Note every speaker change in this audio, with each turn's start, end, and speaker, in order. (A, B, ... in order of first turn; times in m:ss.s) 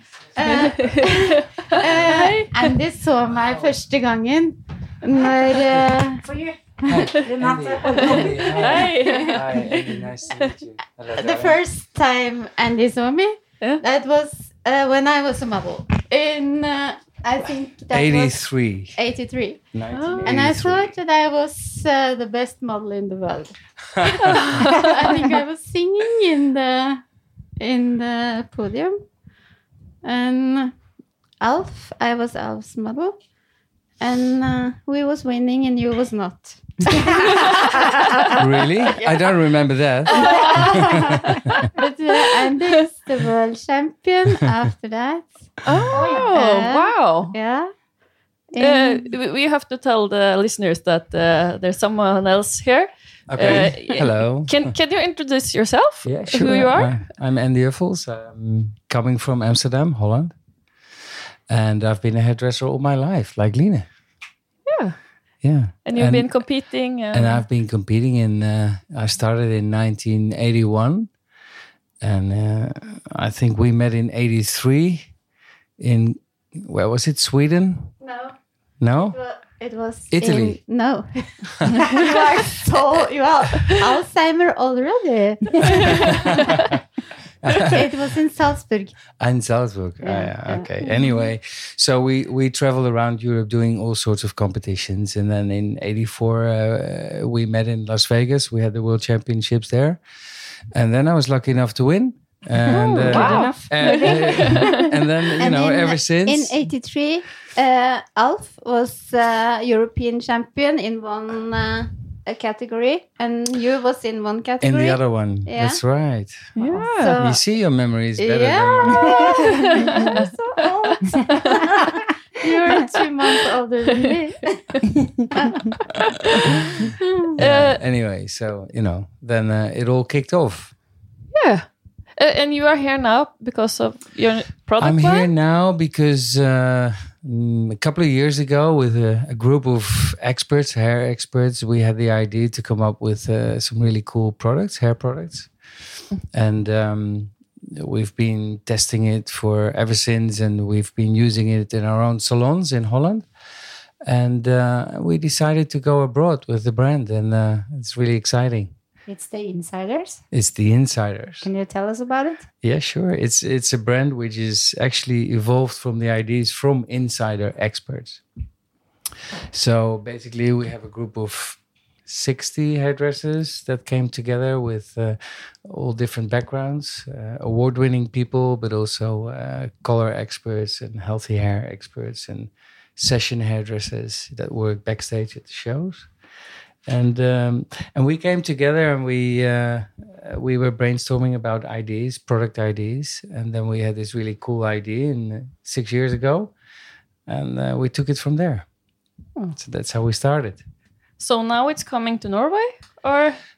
0:00.4-0:06.2 A
0:00.4-0:02.6 B
0:06.2-0:08.8 C
0:06.9-0:11.6 D
0:08.0-0:09.4 A
0:08.5-0:09.4 B
0:11.2-0:18.4 A
0:17.9-0:19.0 D
0:19.0-0:19.6 A
0:19.7-0:20.9 D
0:19.9-0:20.4 B
0:20.2-0:27.0 A
0:23.9-0:24.4 D
0:24.3-0:24.9 B
0:27.6-0:29.0 A
0:30.0-0:30.7 A
0:31.4-0:33.2 A
0:34.0-0:39.3 A
0:38.4-0:41.6 D
0:40.1-0:47.7 A
0:45.6-0:47.4 B
0:45.9-0:46.3 C
0:48.5-0:49.1 A
0:48.6-0:57.0 B
0:53.3-0:54.7 D
0:56.0-1:00.3 D
1:01.5-1:03.9 D
1:04.7-1:05.0 B
1:05.4-1:06.4 D
1:05.8-1:07.4 B
1:07.1-1:11.1 D
1:12.0-1:15.1 D
1:15.8-1:18.0 D
1:18.0-1:18.4 A
1:18.8-1:19.2 D
1:19.0-1:26.7 A
1:20.1-1:20.6 D
1:21.6-1:22.2 D
1:25.6-1:26.7 B
1:25.8-1:26.8 D
1:27.4-1:28.0 D
1:27.5-1:29.0 A
1:29.2-1:40.0 D
1:30.0-1:31.2 A
1:40.7-1:46.6 D
1:42.6-1:45.0 C
1:42.7-1:44.8 B
1:45.4-1:55.8 A
1:54.6-1:56.6 D
1:56.6-1:57.2 B
1:56.6-1:57.4 A
1:57.2-1:59.4 D
1:58.2-2:05.8 A
1:59.2-2:00.3 B
2:01.1-2:01.7 B
2:02.7-2:03.0 B
2:06.0-2:06.6 B
2:06.8-2:07.4 A
2:07.4-2:10.7 D
2:07.4-2:07.8 B
2:11.3-2:15.3 B
2:14.8-2:25.5 D
2:26.3-2:33.3 D
2:34.0-2:38.7 D
2:39.1-2:40.2 C
2:40.3-2:41.5 D
2:41.4-2:42.4 C
2:42.6-2:48.2 D
2:49.5-3:06.1 D
3:06.8-3:16.5 D
3:17.3-3:18.7 D
3:19.6-3:20.6 D
3:21.2-3:23.4 B